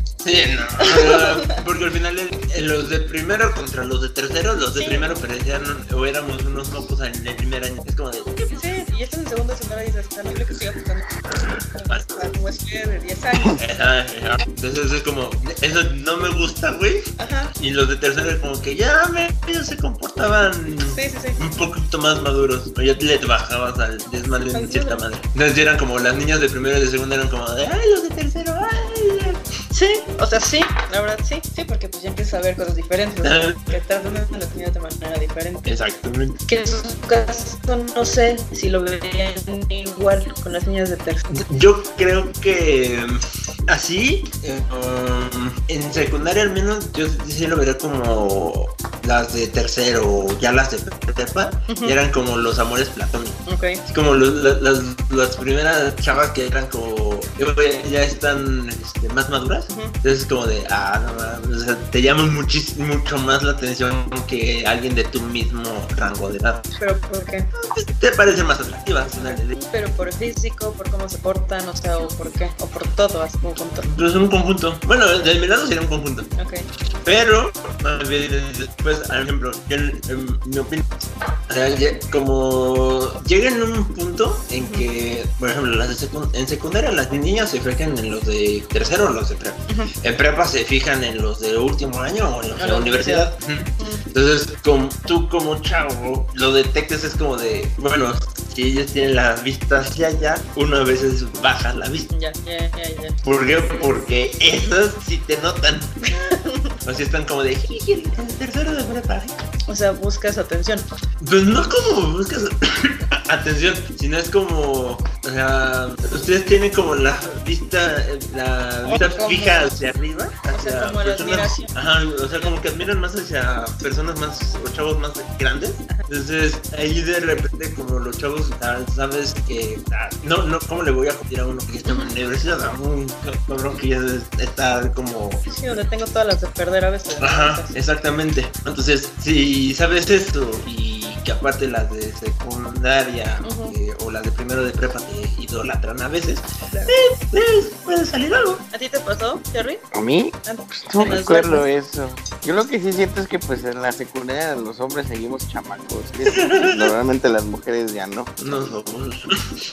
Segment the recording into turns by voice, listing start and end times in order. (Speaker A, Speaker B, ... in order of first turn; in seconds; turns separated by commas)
Speaker A: 0.2-8.5, Speaker B: 0.8-1.6, Speaker B: 4.8-5.1, Speaker B: 8.5-13.6, Speaker A: 11.9-12.2, Speaker A: 13.4-17.1, Speaker B: 17.2-17.5, Speaker A: 17.6-29.4, Speaker B: 20.9-21.4, Speaker B: 24.5-25.0, Speaker B: 29.7-35.7, Speaker A: 33.2-33.7, Speaker A: 35.6-36.4, Speaker B: 36.5-41.3, Speaker A: 41.3-66.7, Speaker B: 51.7-52.0, Speaker B: 53.5-53.8, Speaker B: 59.7-60.0, Speaker B: 66.7-67.5, Speaker A: 67.5-69.6, Speaker B: 69.2-73.9, Speaker A: 73.8-76.3, Speaker B: 76.4-76.7, Speaker A: 77.0-80.8, Speaker A: 81.5-102.1, Speaker B: 84.6-84.9, Speaker B: 92.6-94.1, Speaker B: 102.1-103.2, Speaker A: 103.2-106.2, Speaker B: 106.1-106.8, Speaker A: 106.8-109.4, Speaker B: 109.7-110.9, Speaker A: 111.2-135.4, Speaker B: 118.9-119.7, Speaker B: 120.5-121.7, Speaker B: 135.5-137.8, Speaker A: 137.2-148.6, Speaker B: 143.4-143.8, Speaker B: 146.7-147.0, Speaker B: 148.7-149.8, Speaker C: 149.9-158.3, Speaker B: 150.5-151.7, Speaker A: 156.3-156.9, Speaker A: 158.4-159.4